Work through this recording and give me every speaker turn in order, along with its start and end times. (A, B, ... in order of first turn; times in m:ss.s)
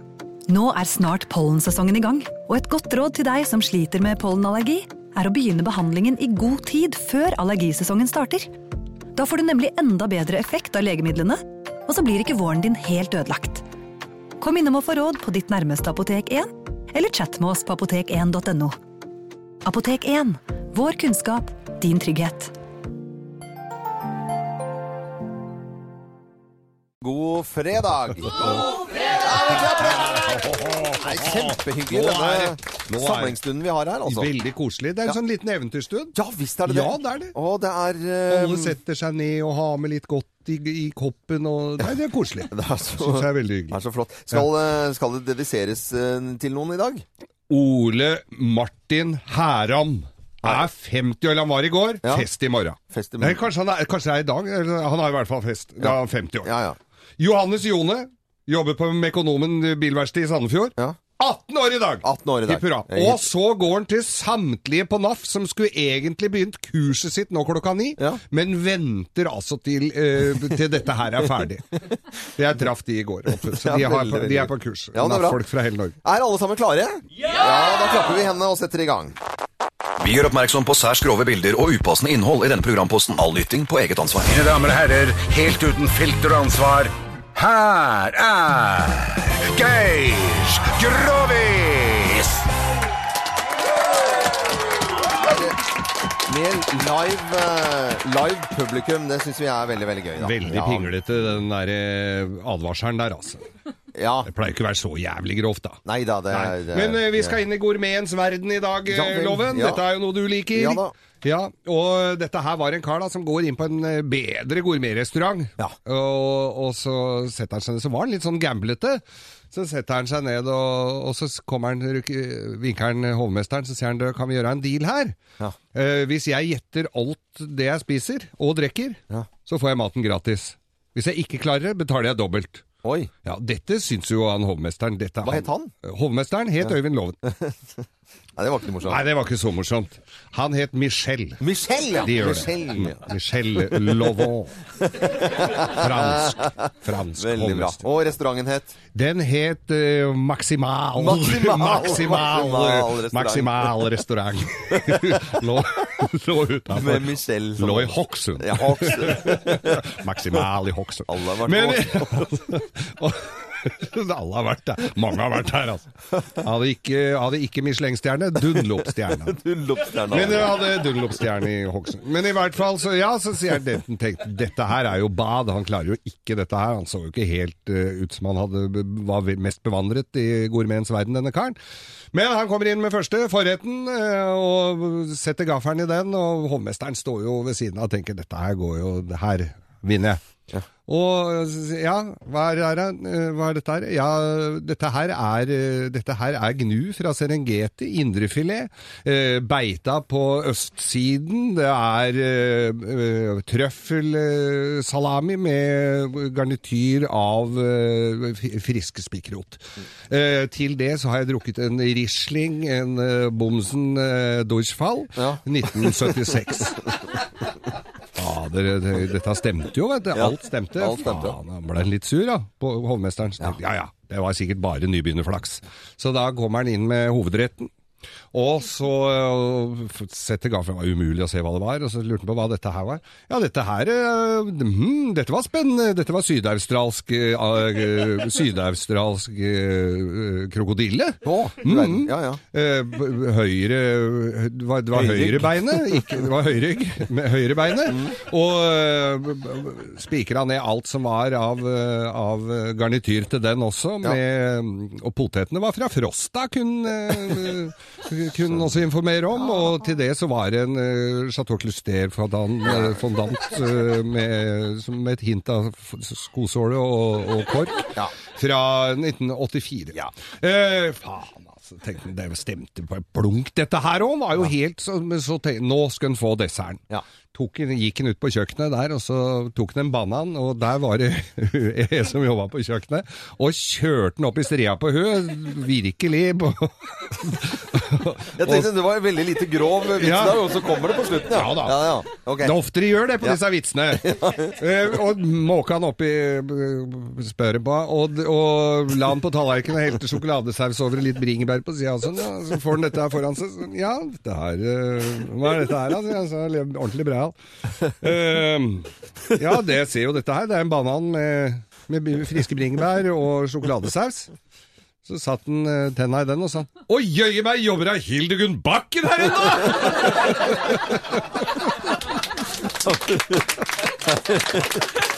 0:00.5-0:08.5 A
0:09.1-0:13.6 A
0:14.4-0:18.7 A
0:19.6-0:22.5 A
0:27.0-0:30.2 B
0:30.0-0:33.4 C
0:31.0-0:34.3 B
0:34.0-0:37.3 C
0:36.1-0:38.8 B
0:38.3-0:43.8 C
0:42.5-0:47.0 B
0:47.5-0:56.5 C
0:52.9-0:53.4 B
0:55.8-0:56.8 B
0:57.2-1:11.8 C
1:02.0-1:03.3 B
1:12.4-1:16.0 C
1:13.4-1:15.4 B
1:16.0-1:19.1 B
1:20.0-1:24.3 D
1:24.2-1:32.4 E
1:35.2-1:35.6 B
1:36.3-1:40.9 B
1:40.2-1:43.4 C
1:43.9-1:44.3 B
1:44.2-2:05.2 C
1:45.8-1:47.4 B
1:48.9-1:49.8 B
1:50.5-1:50.9 B
2:05.7-2:12.6 C
2:12.8-2:13.1 B
2:13.2-2:17.2 C
2:15.2-2:15.7 B
2:18.4-2:19.0 B
2:18.8-2:21.4 C
2:21.4-2:23.0 B
2:21.9-2:24.6 C
2:23.8-2:24.2 B
2:24.8-2:28.7 B
2:25.7-2:27.8 C
2:28.9-2:49.4 C
2:31.0-2:33.9 B
2:34.9-2:35.4 B
2:36.7-2:39.8 B
2:41.1-2:42.3 B
2:48.6-2:50.6 B
2:50.1-3:01.6 C
3:02.1-3:10.2 C
3:10.8-3:37.1 C
3:35.2-3:36.1 B
3:38.1-3:47.7 C
3:40.1-3:41.4 B
3:48.3-4:48.7 C
4:01.2-4:02.4 B
4:04.9-4:06.2 B
4:22.6-4:23.0 B
4:48.4-4:52.5 B
4:49.9-4:50.6 C
4:51.3-5:14.3 C
4:54.0-4:54.5 B
5:15.0-5:21.0 C
5:22.7-5:24.7 B